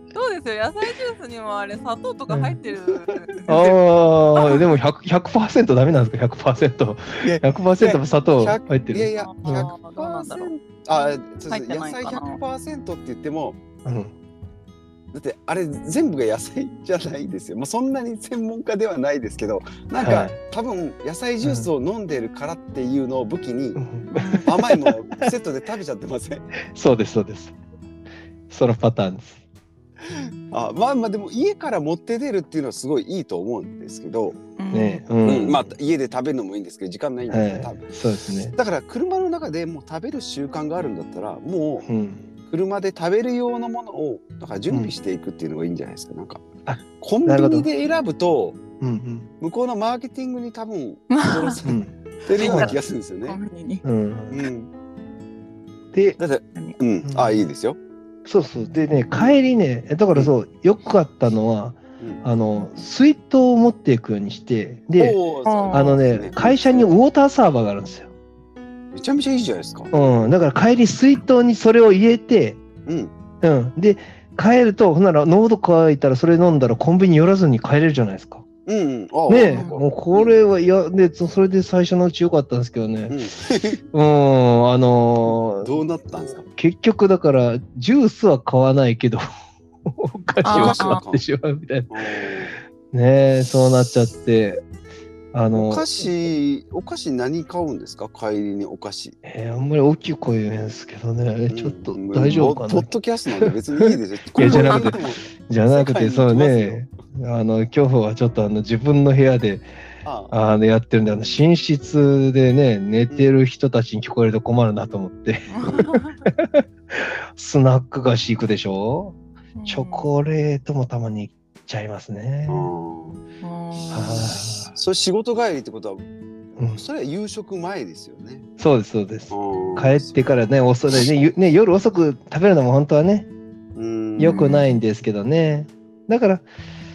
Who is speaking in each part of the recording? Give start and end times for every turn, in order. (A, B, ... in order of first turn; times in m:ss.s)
0:00.1-0:03.6 A
0:02.3-0:02.6 B
0:02.9-0:03.8 C
0:03.5-0:09.7 B
0:04.3-0:04.6 A
0:07.2-0:13.6 C
0:09.2-0:10.5 A
0:11.5-0:12.4 A
0:13.8-0:14.1 B
0:15.1-0:23.8 C
0:20.0-0:20.4 B
0:21.4-0:21.7 B
0:23.8-0:24.9 B
0:24.1-0:24.5 A
0:24.4-0:26.4 C
0:26.7-0:27.5 B
0:28.5-0:29.4 B
0:30.5-0:34.4 C
0:34.6-0:35.0 A
0:34.7-0:35.7 B
0:35.2-0:38.0 C
0:37.3-0:38.5 B
0:38.5-0:41.9 C
0:41.8-0:42.2 B
0:42.4-0:46.4 C
0:46.6-0:47.7 B
0:47.0-0:48.6 C
0:48.8-0:49.3 B
0:49.4-0:53.4 C
0:51.1-0:51.6 A
0:51.6-0:52.8 B
0:52.3-0:53.8 A
0:53.8-0:54.4 B
0:54.3-0:54.7 C
0:55.9-0:56.2 B
0:56.2-0:57.8 C
0:57.0-0:57.4 B
0:58.2-1:05.2 B
0:59.1-0:59.4 C
1:05.0-1:07.0 C
1:05.4-1:06.0 A
1:05.7-1:08.1 B
1:08.9-1:10.0 C
1:09.9-1:12.6 B
1:12.8-1:13.1 C
1:13.4-1:18.4 B
1:18.6-1:20.4 C
1:19.3-1:23.2 B
1:19.4-1:19.7 A
1:23.1-1:23.8 C
1:23.9-1:25.7 B
1:25.6-1:26.4 C
1:26.5-1:29.2 B
1:29.8-1:32.0 B
1:30.4-1:31.2 C
1:30.4-1:31.0 A
1:31.9-1:32.6 C
1:32.9-1:34.6 B
1:35.3-1:35.8 B
1:35.5-1:39.2 C
1:39.2-1:42.9 B
1:41.5-1:46.8 C
1:42.2-1:42.5 A
1:43.4-1:49.6 B
1:44.4-1:45.0 A
1:50.0-1:50.3 C
1:50.3-2:02.7 B
1:55.5-1:56.2 A
1:55.6-1:55.9 C
1:59.5-2:00.1 A
2:02.5-2:03.2 C
2:03.4-2:04.4 A
2:03.9-2:04.7 B
2:04.7-2:06.0 C
2:06.6-2:06.8 B
2:06.8-2:08.5 C
2:08.6-2:13.3 B
2:09.3-2:10.3 C
2:13.8-2:14.4 C
2:14.2-2:16.4 B
2:14.2-2:14.8 A